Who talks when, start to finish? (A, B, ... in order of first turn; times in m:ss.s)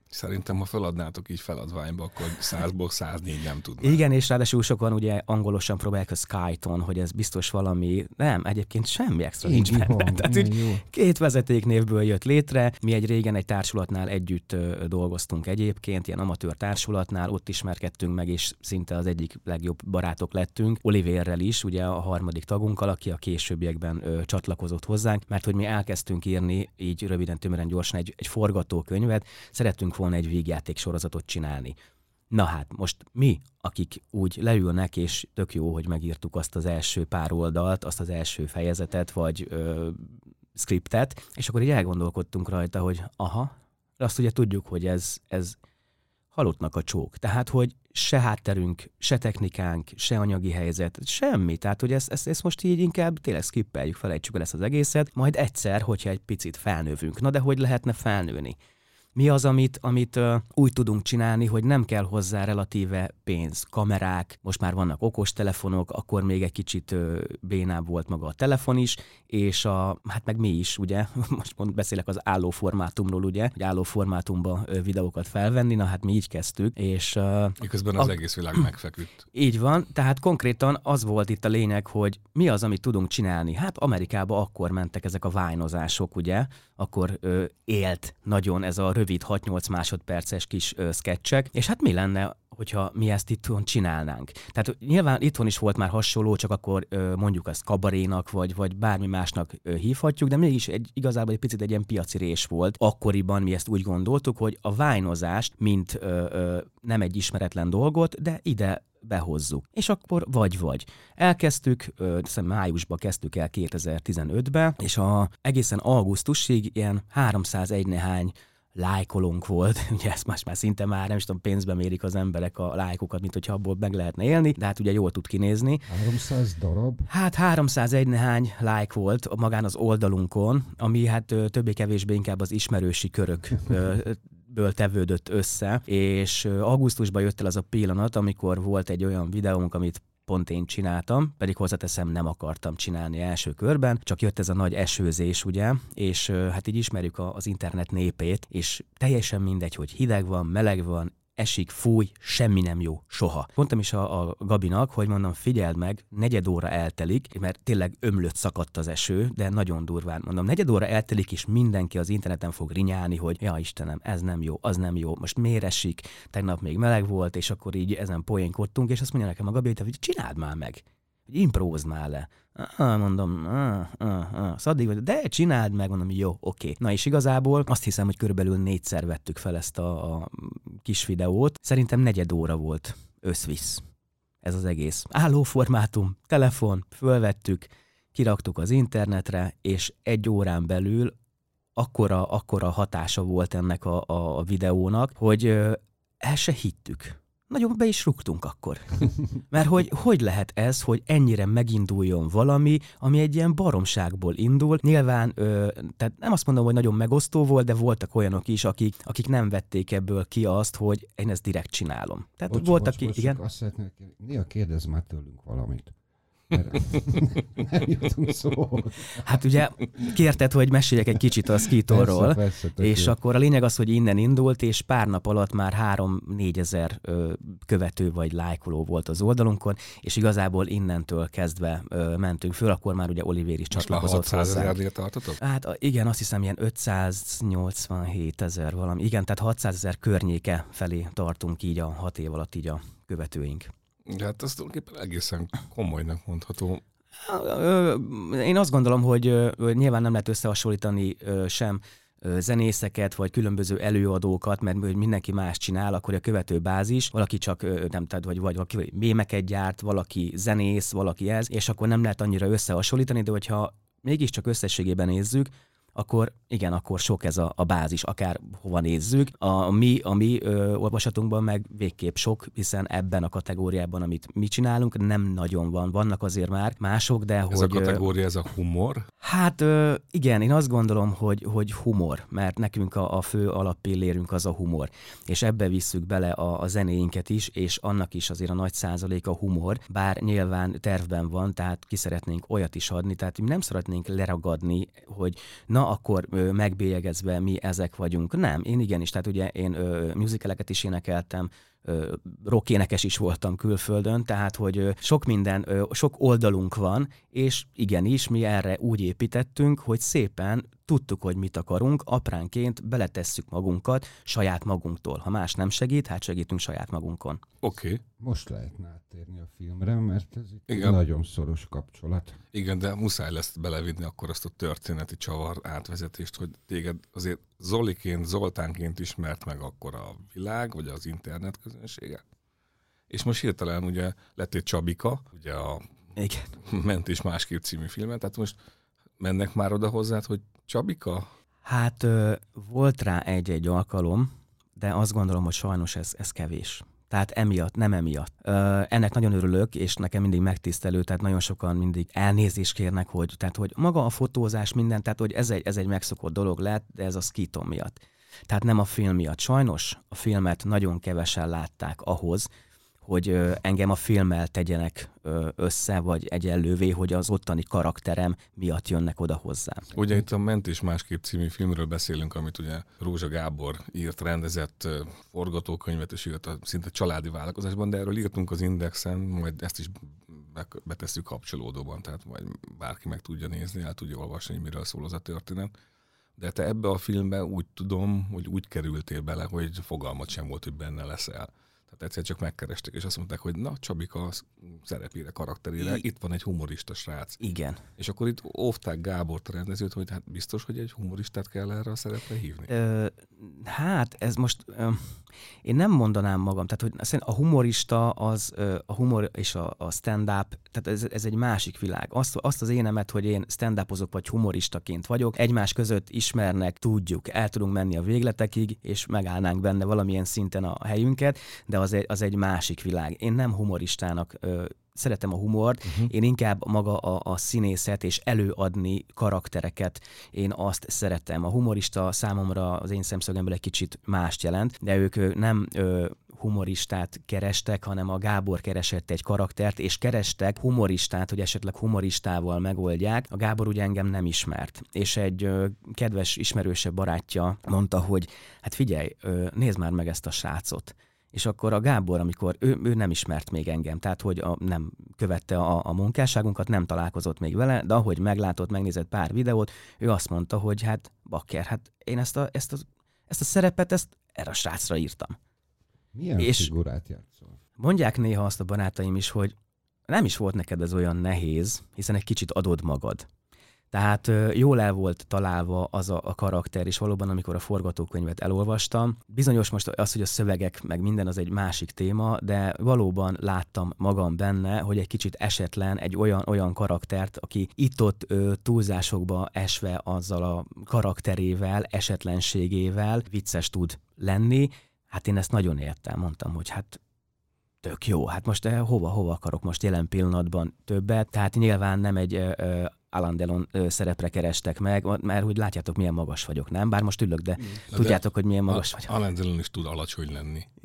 0:00.1-0:04.0 A
0:03.8-0:31.8 B
0:09.4-0:10.8 C
0:32.3-0:45.6 B
0:46.3-0:58.6 B
0:59.2-1:18.1 B
1:17.6-1:19.2 A
1:19.3-2:05.9 B
2:05.9-2:07.1 C
2:07.1-3:03.8 B
3:04.4-3:11.1 B
3:11.8-3:33.4 B
3:32.5-3:35.9 C
3:36.5-3:39.3 C
3:39.1-3:54.8 B
3:41.9-3:43.2 C
3:53.7-3:55.4 A
3:55.4-4:03.7 B
4:04.1-4:06.8 A
4:07.2-4:38.0 B
4:37.5-4:39.1 A
4:39.2-5:17.4 B
5:17.6-5:18.0 A
5:18.2-5:22.4 C
5:20.7-5:21.0 A
5:22.5-5:32.2 A
5:33.1-5:35.9 A
5:36.2-5:36.5 B
5:36.5-5:38.6 A
5:39.2-5:41.3 A
5:41.6-6:02.5 B
6:03.0-6:09.9 B
6:09.9-6:25.7 A
6:26.4-6:37.4 A
6:37.4-6:37.8 B
6:38.0-6:42.7 A
6:42.7-7:45.4 B
7:46.1-7:47.6 C
7:46.4-7:46.7 B
7:47.8-7:49.6 B
7:50.1-7:53.3 B
7:53.9-8:17.0 B
8:17.8-8:29.1 B
8:27.9-8:30.7 A